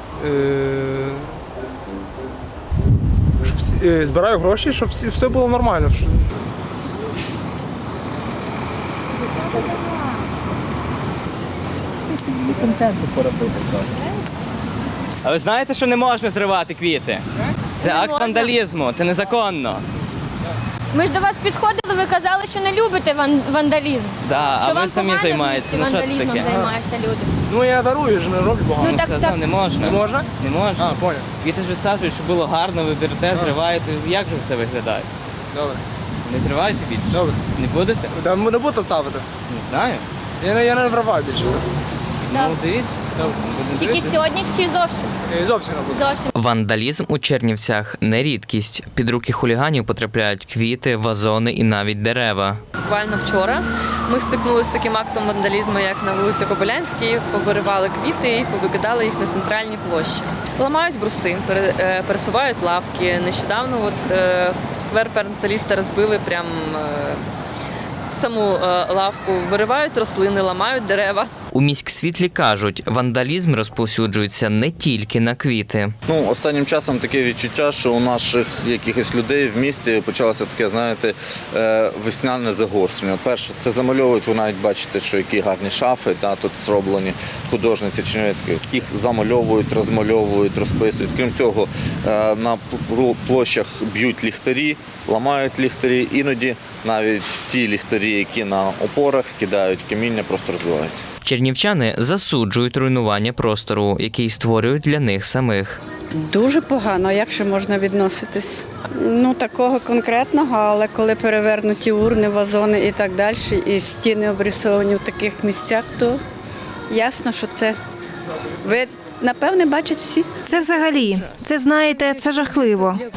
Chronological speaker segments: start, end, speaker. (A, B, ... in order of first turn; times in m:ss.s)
0:00.2-0:01.2 A
0:03.4-0:06.2 A
0:09.2-0:10.2 B
0:12.4-0:13.7 C
0:15.3-0:17.2 D
0:17.8-0:18.6 B
0:17.8-0:19.8 D
0:20.9-0:27.3 B
0:24.2-0:26.5 D
0:26.4-0:26.7 A
0:27.5-0:31.2 A
0:28.8-0:29.6 B
0:29.0-0:30.8 D
0:31.4-0:35.0 D
0:33.3-0:33.6 A
0:35.5-0:35.8 A
0:36.3-0:37.1 D
0:37.1-0:37.4 A
0:37.6-0:38.0 D
0:38.1-0:39.3 A
0:39.6-0:40.0 D
0:40.4-0:41.6 A
0:42.3-0:44.2 D
0:42.3-0:42.6 B
0:43.1-0:43.4 A
0:43.7-0:45.1 B
0:45.3-0:46.1 A
0:45.9-0:46.3 B
0:46.3-0:52.6 E
0:52.8-1:07.2 F
1:08.1-1:11.3 F
1:11.5-1:15.9 E
1:16.1-1:41.0 G
1:41.2-1:45.8 E
1:46.1-1:56.2 H
1:56.9-1:57.8 H
1:58.6-2:00.3 H
2:00.5-2:03.0 C